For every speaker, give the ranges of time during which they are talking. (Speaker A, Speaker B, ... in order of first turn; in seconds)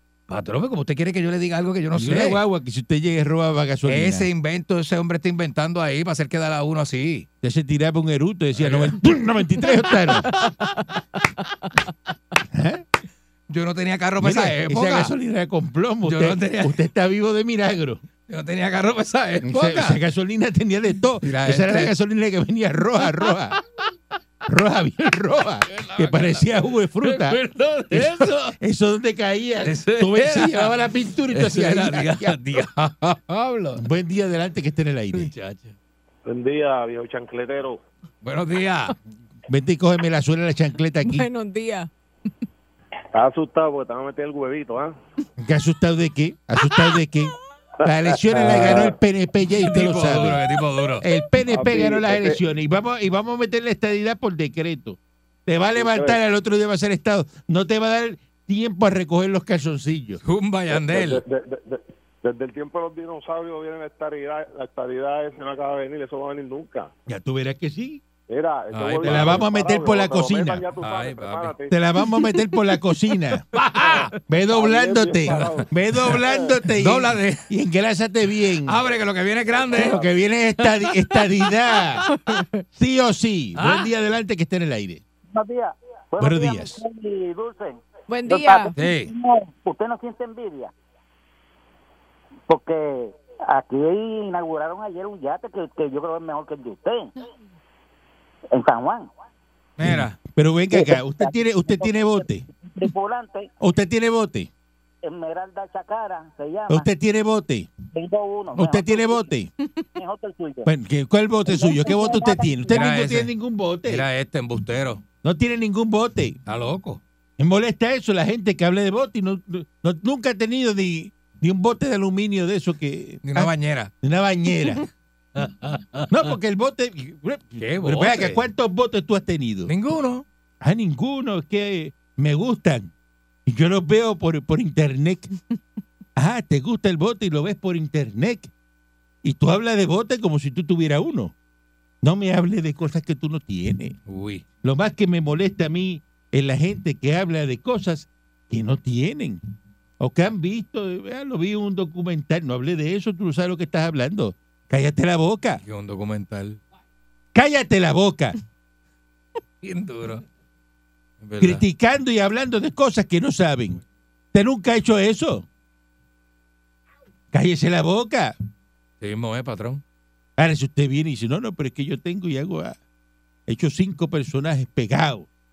Speaker A: 0.3-2.4, 3.9-7.3, 8.6-9.1, 13.5-15.1, 16.1-16.8, 18.3-20.0, 21.2-21.9, 25.7-28.6, 29.6-30.8, 31.3-33.8, 35.1-35.8, 38.2-39.0, 48.5-48.9, 49.6-51.0, 60.2-61.2, 68.7-69.5, 70.8-71.6, 73.5-74.1, 75.3-77.5, 78.7-80.0, 83.6-83.9, 88.8-89.1, 99.8-100.2, 112.7-113.3, 113.8-115.0, 116.5-117.0, 123.2-123.9, 125.3-126.3, 127.6-128.4, 129.7-130.2, 144.1-144.4, 155.6-156.6, 159.6-160.2, 161.2-161.6, 169.0-169.8
Speaker B: 1.9-4.3, 7.4-10.3, 12.5-12.8, 14.2-18.0, 19.4-23.6, 24.4-32.4, 33.8-35.3, 39.5-41.3, 45.4-60.2, 67.1-68.0, 69.0-70.7, 71.7-73.5, 74.3-78.8, 79.7-82.1, 82.7-85.0, 86.2-86.8, 99.8-102.4, 103.6-104.5, 106.7-107.7, 108.5-109.5, 110.7-114.0, 115.2-116.4, 117.4-124.9, 126.1-129.7, 130.6-132.9, 133.5-135.3, 136.2-138.5, 139.2-141.3, 142.0-144.0, 144.6-149.4, 150.0-155.6, 157.3-158.4, 161.4-163.8, 164.3-165.5, 167.3-168.3, 170.4-172.8, 173.5-175.3
Speaker C: 10.5-10.8, 11.4-11.7, 41.0-41.9, 82.2-82.5, 88.1-88.7
Speaker D: 36.2-37.8, 43.1-45.0, 47.8-49.0, 51.5-52.4, 55.8-56.2, 60.7-66.9, 68.3-71.8, 73.9-76.6, 79.5-80.1
Speaker E: 85.3-90.7, 92.5-97.2, 98.5-99.1, 100.7-103.5, 105.0-106.9, 107.9-109.3, 110.0-110.7, 111.5-112.9